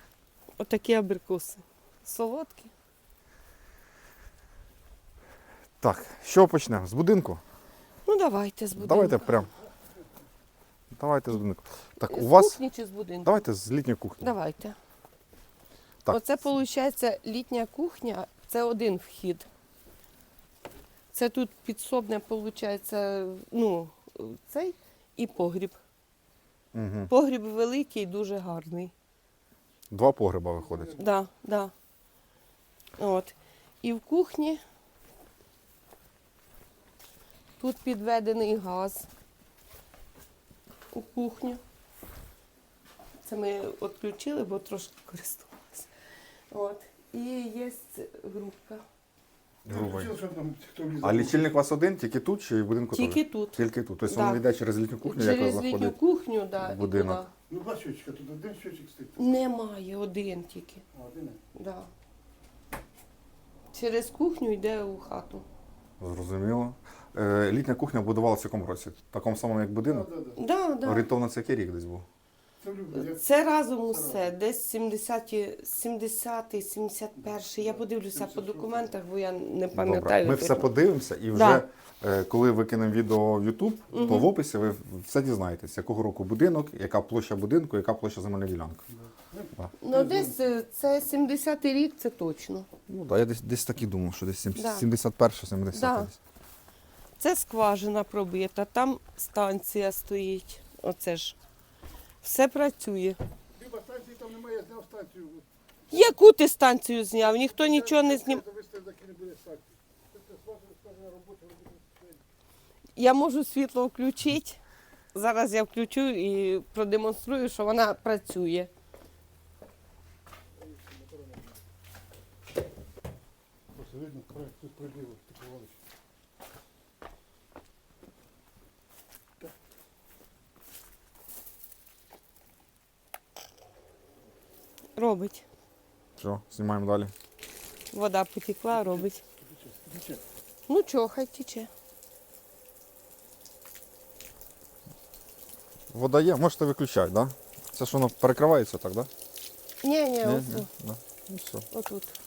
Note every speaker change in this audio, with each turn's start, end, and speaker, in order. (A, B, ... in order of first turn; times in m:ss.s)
0:00.6-0:02.7 A
0:05.8-0:07.4 B
0:08.0-0:09.4 A
0:08.8-0:09.5 B
0:10.9-0:12.6 B
0:12.1-0:13.4 A
0:13.2-0:14.3 B
0:14.2-0:14.8 A
0:16.1-0:19.5 A
0:21.1-0:25.8 A
0:26.7-0:27.1 B
0:27.1-0:28.9 A
0:29.9-0:31.0 B
0:30.9-0:31.7 A
0:33.0-0:34.6 A
0:37.6-0:39.1 A
0:40.9-0:41.6 A
0:43.2-0:45.9 A
0:46.5-0:48.8 A
0:49.6-0:50.1 B
0:49.7-0:51.5 C
0:51.0-0:56.0 B
0:52.9-0:54.4 A
0:55.0-0:57.3 A
0:56.6-0:57.2 B
0:57.5-0:59.2 C
0:59.2-1:00.8 A
1:00.9-1:01.4 C
1:01.5-1:01.9 A
1:03.7-1:05.4 A
1:06.0-1:10.1 B
1:09.9-1:10.4 C
1:10.4-1:11.1 A
1:10.8-1:12.0 B
1:12.6-1:13.2 C
1:12.9-1:20.7 A
1:13.9-1:14.3 C
1:17.3-1:18.9 C
1:19.7-1:28.8 B
1:21.3-1:21.6 A
1:23.9-1:24.3 A
1:29.1-1:30.3 C
1:29.8-1:32.7 A
1:32.9-1:36.2 B
1:34.6-1:34.8 A
1:35.7-1:36.1 A
1:37.2-1:41.4 A
1:42.2-1:43.2 A
1:43.6-1:45.4 C
1:45.9-1:48.4 A
1:47.4-1:52.2 C
1:53.0-1:54.6 A
1:55.1-1:58.7 A
2:00.9-2:01.4 C
2:03.7-2:05.8 C
2:15.0-2:15.4 A
2:16.2-2:17.1 B
2:17.9-2:19.2 A
2:18.7-2:20.2 C
2:20.7-2:21.7 A
2:25.9-2:29.1 B
2:29.8-2:30.7 A
2:30.2-2:31.6 B
2:31.7-2:32.2 A